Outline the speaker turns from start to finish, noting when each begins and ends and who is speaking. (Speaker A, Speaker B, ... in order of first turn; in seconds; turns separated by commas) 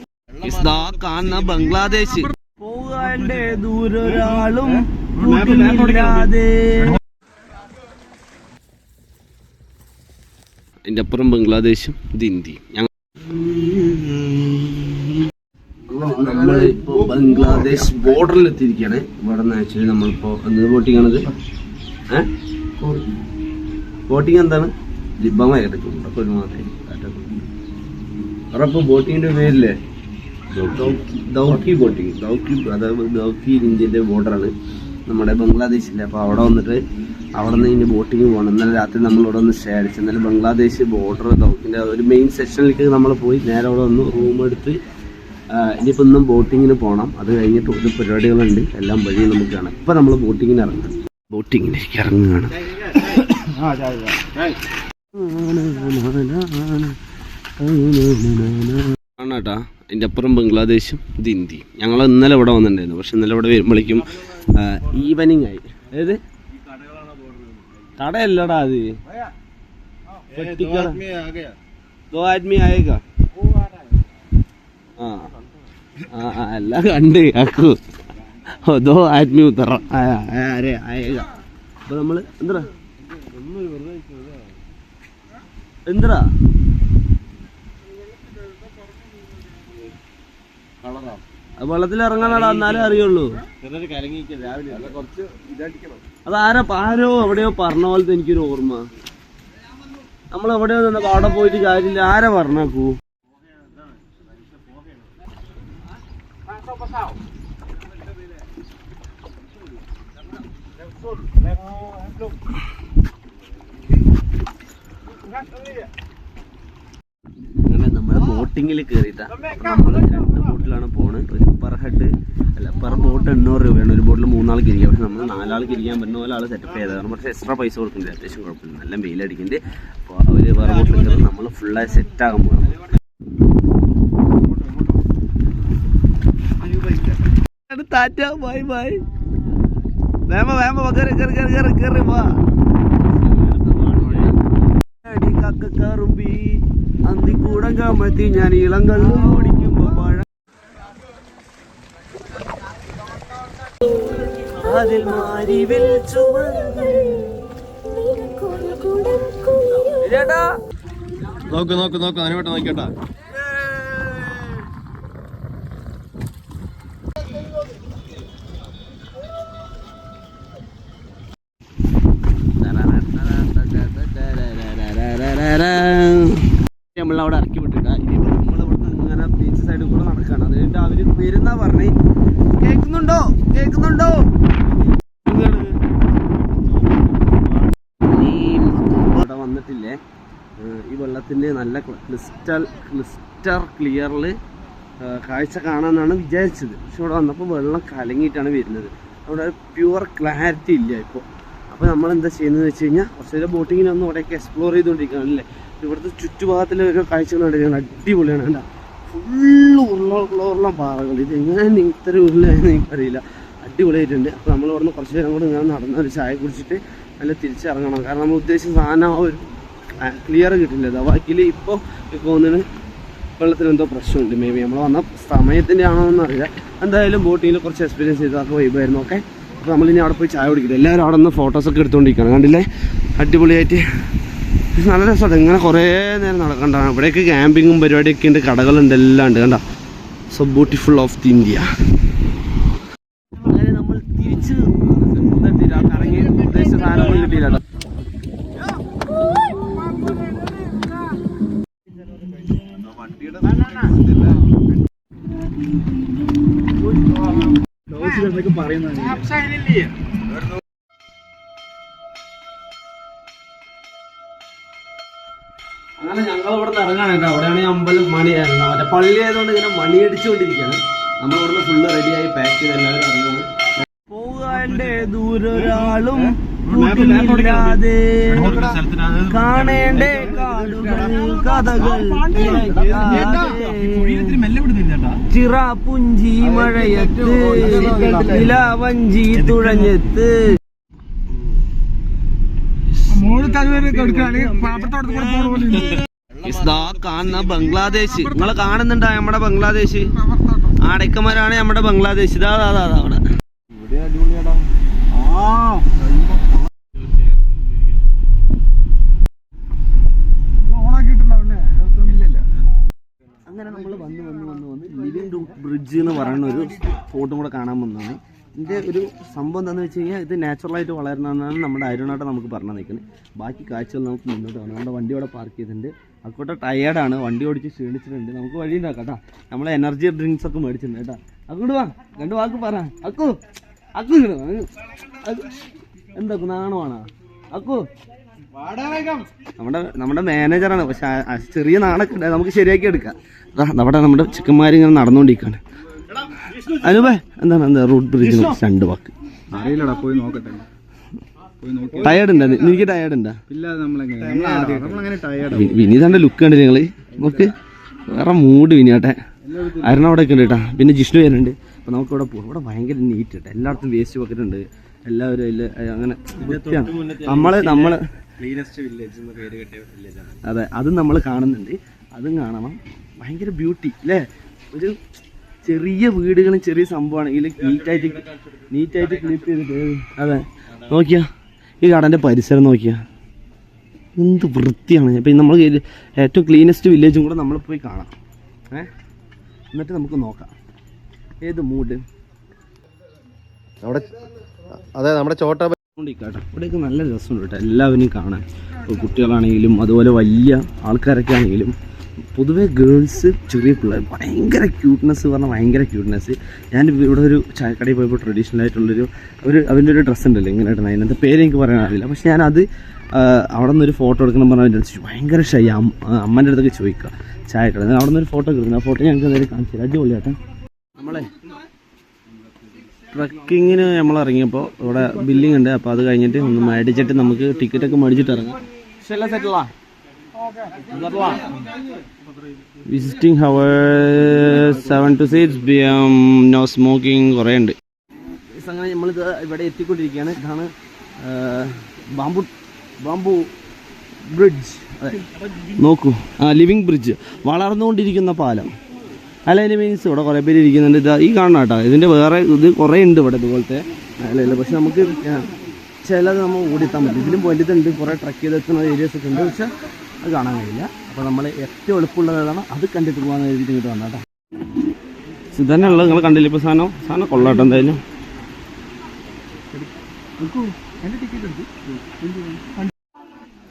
Speaker A: 0.4-7.0, Speaker B: 4.1-6.3, Speaker A: 10.8-15.2, Speaker A: 15.9-21.3, Speaker A: 24.1-27.4, Speaker A: 28.5-29.7, Speaker A: 30.5-34.5, Speaker A: 35.1-36.8, Speaker A: 37.4-44.8, Speaker A: 45.5-54.4, Speaker A: 55.1-57.0, Speaker A: 57.6-66.2, Speaker B: 66.7-67.6, Speaker A: 68.0-68.9, Speaker A: 70.3-71.0, Speaker B: 70.3-71.5, Speaker A: 72.1-73.0, Speaker A: 75.0-75.3, Speaker A: 76.0-77.8, Speaker A: 78.5-81.3, Speaker A: 81.8-82.7, Speaker B: 83.1-84.5, Speaker A: 85.8-86.2, Speaker B: 90.8-91.2, Speaker A: 91.6-93.3, Speaker B: 92.1-93.1, Speaker B: 93.6-96.0, Speaker A: 96.2-98.8, Speaker A: 100.3-102.9, Speaker A: 117.7-132.8, Speaker B: 136.7-137.0, Speaker A: 137.7-139.0, Speaker A: 140.3-142.3, Speaker B: 143.2-144.3, Speaker A: 143.4-144.3, Speaker A: 145.0-150.2, Speaker A: 154.4-157.4, Speaker A: 158.4-160.6, Speaker B: 161.4-162.9, Speaker A: 172.6-181.9, Speaker A: 182.6-184.4, Speaker A: 185.2-185.7, Speaker A: 188.1-190.0, Speaker A: 190.6-194.3, Speaker A: 195.0-222.6, Speaker A: 223.4-233.8, Speaker A: 234.7-239.6, Speaker A: 240.3-241.7, Speaker A: 243.4-247.6, Speaker B: 245.2-246.0, Speaker B: 253.1-254.2, Speaker C: 257.9-259.5, Speaker A: 266.0-273.5, Speaker A: 274.1-284.4, Speaker B: 274.6-275.0, Speaker B: 275.6-277.8, Speaker B: 278.4-280.5, Speaker C: 281.4-283.6, Speaker B: 282.2-285.2, Speaker A: 285.3-290.6, Speaker C: 286.6-288.5, Speaker B: 287.7-288.3, Speaker C: 293.1-295.9, Speaker B: 293.3-295.1, Speaker A: 295.1-303.2, Speaker B: 303.7-306.1, Speaker C: 305.5-305.9, Speaker C: 310.7-312.5, Speaker A: 313.4-333.4, Speaker A: 333.9-335.6, Speaker A: 336.1-337.9, Speaker B: 338.7-339.2, Speaker A: 339.6-345.6, Speaker A: 346.5-349.1, Speaker C: 349.5-350.7, Speaker C: 351.6-352.3, Speaker A: 352.0-353.4, Speaker C: 353.5-355.8, Speaker A: 354.4-357.5, Speaker C: 357.2-357.5, Speaker A: 358.1-368.0, Speaker C: 359.5-359.9, Speaker B: 366.4-370.4, Speaker A: 370.4-375.0, Speaker A: 375.6-381.3, Speaker A: 381.8-383.0, Speaker A: 384.2-388.1, Speaker A: 389.7-390.5, Speaker A: 391.4-392.0, Speaker A: 393.8-394.1, Speaker A: 394.9-401.7, Speaker A: 402.3-420.4, Speaker A: 421.0-421.3, Speaker A: 423.1-428.6, Speaker B: 429.0-429.6, Speaker A: 429.1-429.7, Speaker B: 430.8-431.6, Speaker A: 432.9-437.7, Speaker A: 438.6-442.5, Speaker A: 443.0-443.5, Speaker A: 444.3-448.7, Speaker A: 449.5-455.5, Speaker A: 456.0-464.2, Speaker A: 465.5-468.0, Speaker C: 470.4-472.7